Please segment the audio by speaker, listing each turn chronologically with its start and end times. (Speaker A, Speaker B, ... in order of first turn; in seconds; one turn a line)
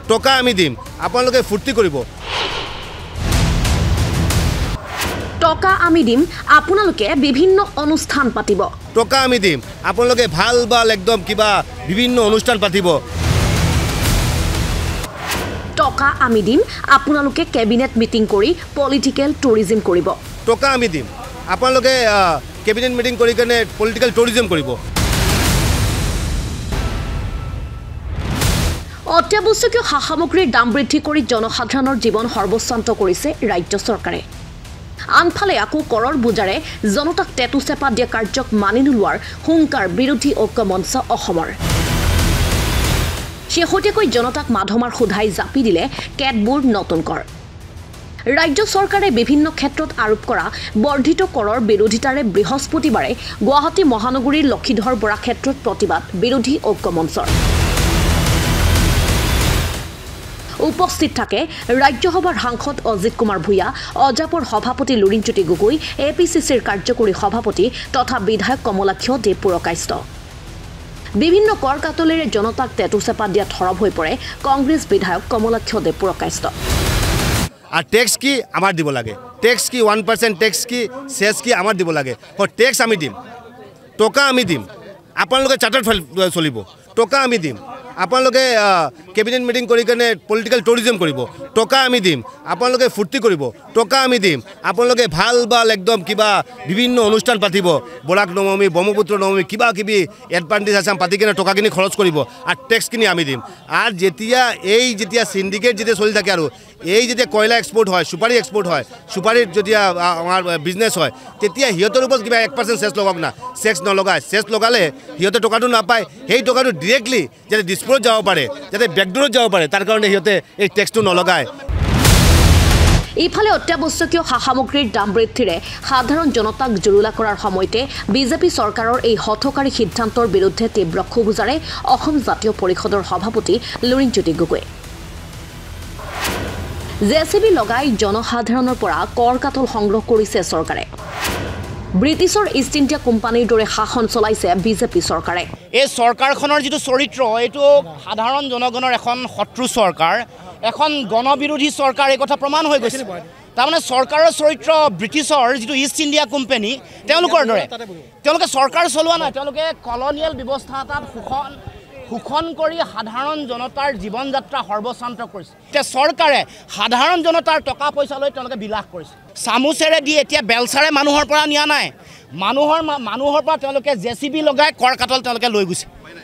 Speaker A: 0.1-2.0
Speaker B: 5.4-8.7
Speaker A: 8.9-12.9
Speaker B: 15.8-20.1
Speaker A: 20.5-24.8
Speaker B: 29.1-34.2
Speaker B: 35.2-41.5
Speaker B: 43.5-47.2
Speaker B: 48.3-57.3
Speaker B: 60.6-70.0
Speaker B: 71.2-76.5
Speaker A: 77.8-83.2
Speaker A: 84.0-84.7
Speaker A: 85.2-121.5
Speaker B: 123.2-134.7
Speaker B: 137.1-140.9
Speaker B: 142.0-145.5
Speaker C: 145.8-157.7
Speaker C: 158.2-161.6
Speaker C: 162.1-175.9